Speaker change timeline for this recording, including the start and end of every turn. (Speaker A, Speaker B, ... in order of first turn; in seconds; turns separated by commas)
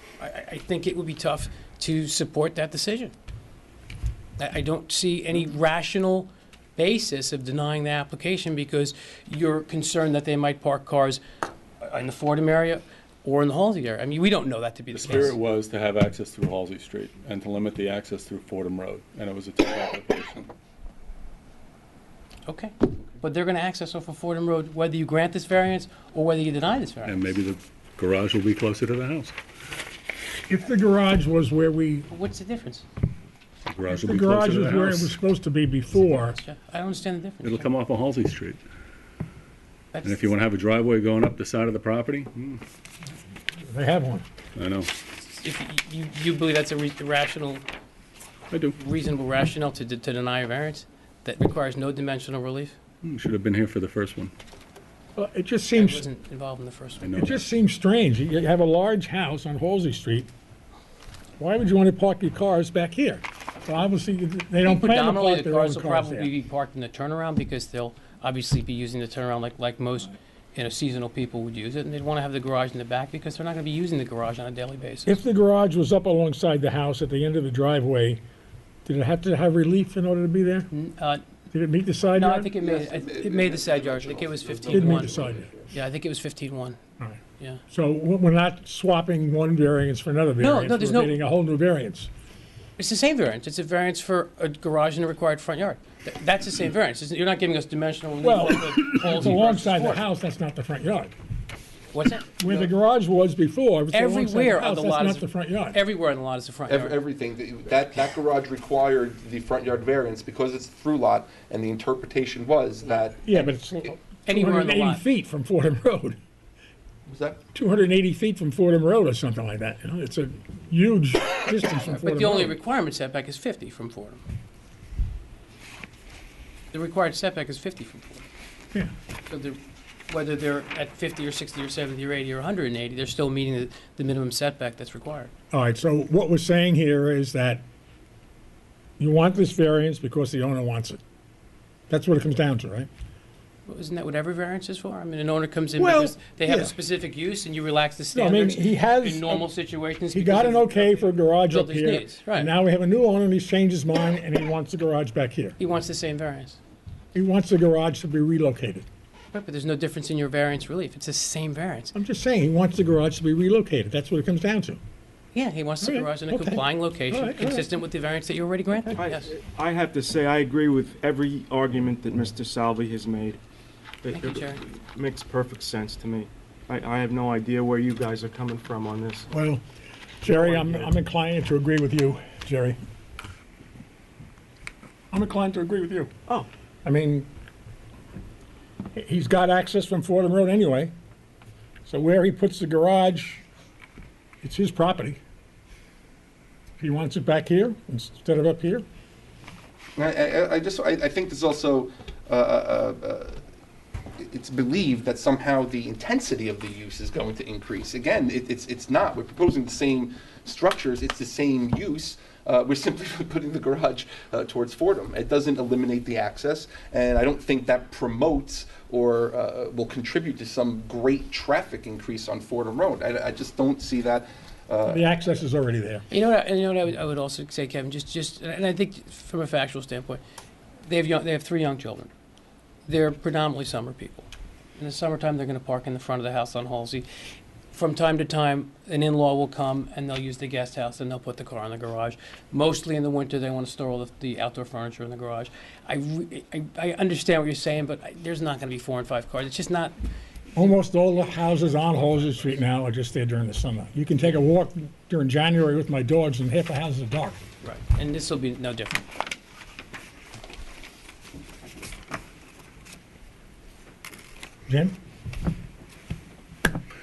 Speaker A: 0.2-3.1, Speaker A: 4.4-11.2, Speaker A: 11.8-15.4, Speaker B: 14.9-20.5, Speaker A: 22.5-27.2, Speaker B: 27.0-29.4, Speaker C: 30.5-32.1, Speaker A: 32.1-32.9, Speaker B: 33.7-35.1, Speaker C: 33.9-36.4, Speaker A: 36.0-37.7, Speaker B: 37.4-38.6, Speaker A: 39.9-40.3, Speaker B: 40.0-42.6, Speaker C: 43.6-44.3, Speaker B: 44.6-44.9, Speaker A: 45.2-47.7, Speaker B: 48.5-48.8, Speaker A: 48.8-52.8, Speaker B: 53.0-54.3, Speaker C: 55.2-56.1, Speaker A: 55.8-57.1, Speaker B: 57.0-57.4, Speaker C: 57.1-60.3, Speaker C: 61.4-66.3, Speaker A: 64.6-75.1, Speaker C: 75.0-78.2, Speaker C: 78.8-80.7, Speaker A: 80.7-81.2, Speaker C: 81.5-82.5, Speaker A: 82.1-86.8, Speaker D: 82.6-85.7, Speaker C: 84.7-85.5, Speaker C: 87.0-92.1, Speaker A: 90.4-91.2, Speaker A: 92.8-100.0, Speaker C: 98.2-101.1, Speaker A: 101.9-102.4, Speaker C: 102.4-105.8, Speaker A: 103.9-107.0, Speaker D: 106.7-113.5, Speaker C: 113.2-116.2, Speaker A: 114.3-115.0, Speaker D: 117.1-117.4, Speaker C: 117.5-122.5, Speaker A: 121.8-124.2, Speaker A: 126.7-128.3, Speaker A: 129.3-135.3, Speaker C: 135.5-137.6, Speaker C: 139.0-141.0, Speaker C: 141.9-142.9, Speaker A: 143.7-152.5, Speaker C: 145.8-146.7, Speaker C: 148.1-149.5, Speaker C: 150.1-155.6, Speaker A: 155.6-156.6, Speaker C: 157.2-158.9, Speaker A: 159.3-161.9, Speaker C: 161.9-164.8, Speaker A: 165.3-169.3, Speaker C: 165.8-167.7, Speaker E: 168.9-173.4, Speaker E: 174.0-179.3, Speaker A: 174.1-174.6, Speaker C: 179.3-179.6, Speaker C: 180.2-182.8, Speaker E: 180.3-180.9, Speaker C: 185.1-186.1, Speaker C: 186.8-187.3, Speaker C: 188.9-190.9, Speaker C: 191.8-193.4, Speaker C: 194.4-195.2, Speaker C: 196.8-198.9, Speaker D: 200.0-203.4, Speaker D: 204.2-225.1, Speaker C: 224.9-226.1, Speaker A: 226.1-230.2, Speaker A: 230.8-232.1, Speaker A: 232.9-237.1, Speaker A: 237.7-250.0, Speaker C: 250.6-257.4, Speaker A: 257.6-259.1, Speaker C: 264.7-264.9